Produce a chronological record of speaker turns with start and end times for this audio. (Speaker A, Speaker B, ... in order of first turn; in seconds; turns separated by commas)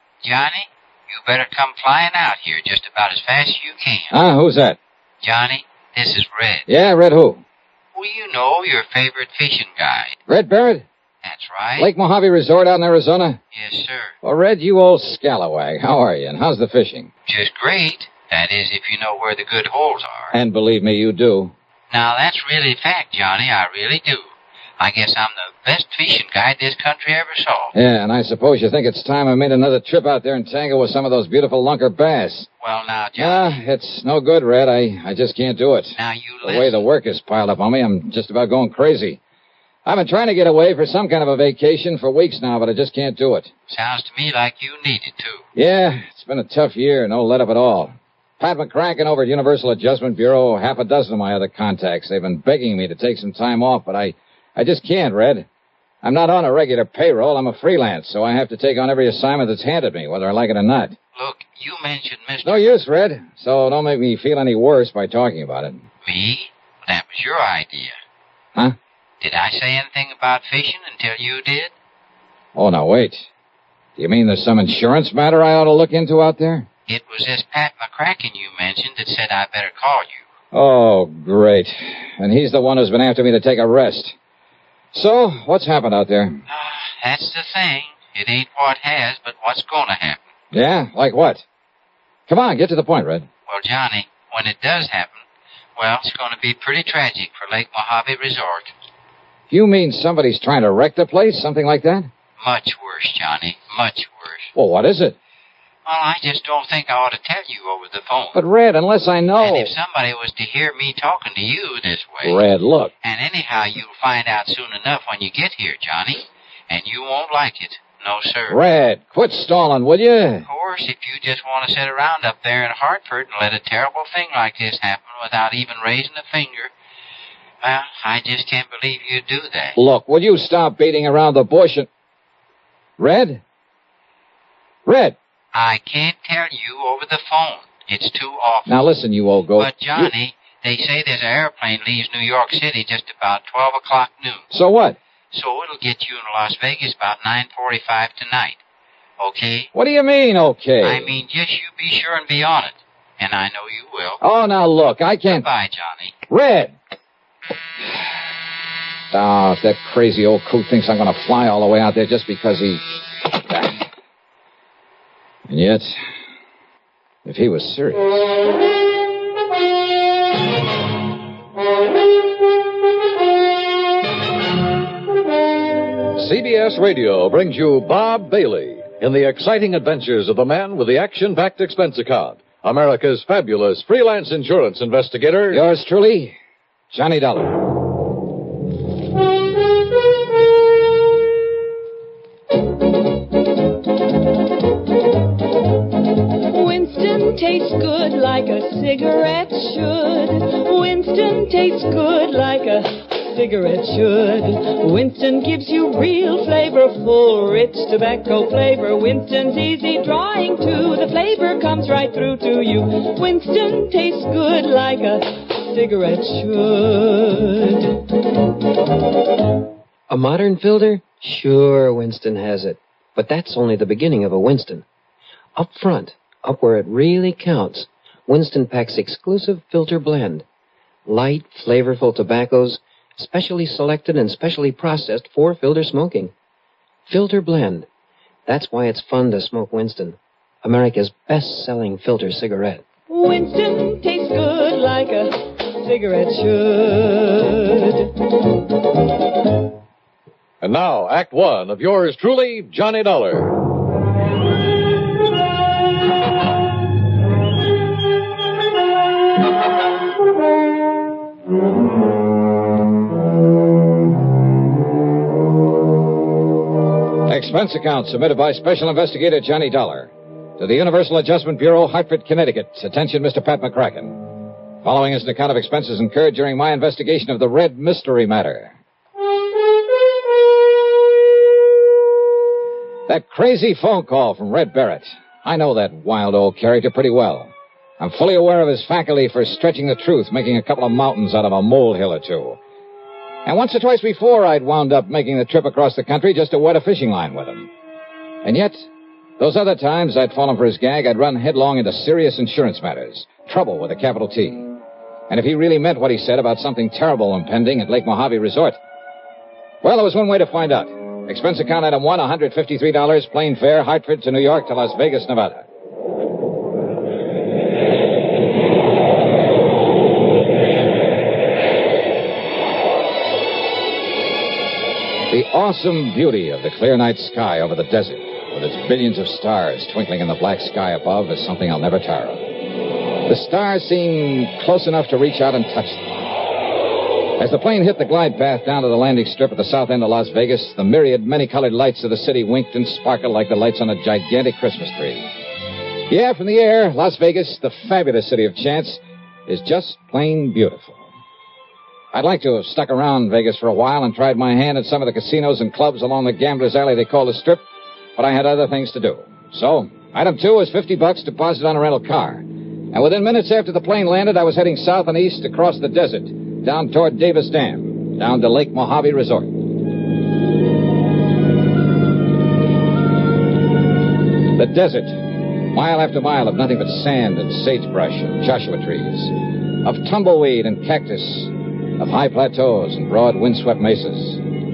Speaker A: 0.2-4.2, Speaker B: 4.1-4.8, Speaker A: 5.2-6.7, Speaker B: 6.7-7.4, Speaker A: 7.9-10.2, Speaker B: 10.3-10.9, Speaker A: 11.2-11.9, Speaker B: 11.8-13.4, Speaker A: 13.5-14.1, Speaker B: 14.2-17.1, Speaker A: 17.2-20.3, Speaker B: 20.3-21.5, Speaker A: 21.9-27.7, Speaker B: 27.7-32.5, Speaker A: 32.6-33.6, Speaker B: 33.2-39.2, Speaker A: 35.9-36.8, Speaker B: 39.8-43.5, Speaker A: 43.7-45.5, Speaker B: 45.5-55.5, Speaker B: 56.0-61.0, Speaker A: 61.1-62.8, Speaker B: 62.4-65.8, Speaker A: 66.0-68.0, Speaker A: 69.2-71.7, Speaker B: 72.5-73.3, Speaker B: 74.0-76.7, Speaker A: 76.9-80.2, Speaker B: 80.5-84.1, Speaker B: 84.9-86.4, Speaker A: 86.5-90.2, Speaker B: 90.5-91.4, Speaker B: 92.3-93.3, Speaker A: 93.5-95.2, Speaker A: 95.8-98.7, Speaker B: 99.5-102.1, Speaker A: 102.4-104.5, Speaker B: 104.5-105.2, Speaker A: 105.8-108.4, Speaker B: 108.3-109.7, Speaker A: 109.4-112.4, Speaker B: 112.2-112.9, Speaker A: 113.0-118.6, Speaker B: 118.5-120.5, Speaker A: 120.5-126.7, Speaker A: 127.6-129.8, Speaker B: 129.8-131.9, Speaker B: 133.0-133.4, Speaker B: 134.8-135.2, Speaker A: 135.5-138.8, Speaker B: 138.7-140.1, Speaker A: 139.6-144.5, Speaker B: 144.5-145.0, Speaker A: 145.3-148.6, Speaker A: 149.2-149.7, Speaker B: 149.7-151.1, Speaker A: 150.8-154.2, Speaker B: 154.2-155.4, Speaker A: 155.3-156.1, Speaker B: 156.3-156.7, Speaker B: 159.1-163.9, Speaker B: 165.5-166.0, Speaker B: 167.2-168.3, Speaker C: 176.1-185.6, Speaker B: 185.5-186.3, Speaker B: 186.9-187.7, Speaker D: 196.5-218.1, Speaker E: 220.1-224.8, Speaker E: 225.6-230.4, Speaker E: 231.1-236.3, Speaker E: 237.1-237.9, Speaker E: 238.4-242.8, Speaker D: 243.1-248.1, Speaker C: 250.6-253.5, Speaker B: 267.2-278.8, Speaker B: 283.1-292.6, Speaker B: 293.4-297.7, Speaker B: 298.4-298.9, Speaker B: 299.4-304.8, Speaker B: 305.3-308.8, Speaker B: 309.8-315.6, Speaker B: 325.3-332.5, Speaker B: 333.2-336.2, Speaker B: 337.4-345.3, Speaker B: 346.1-351.1, Speaker B: 352.1-357.6, Speaker B: 358.1-369.6, Speaker B: 374.5-384.4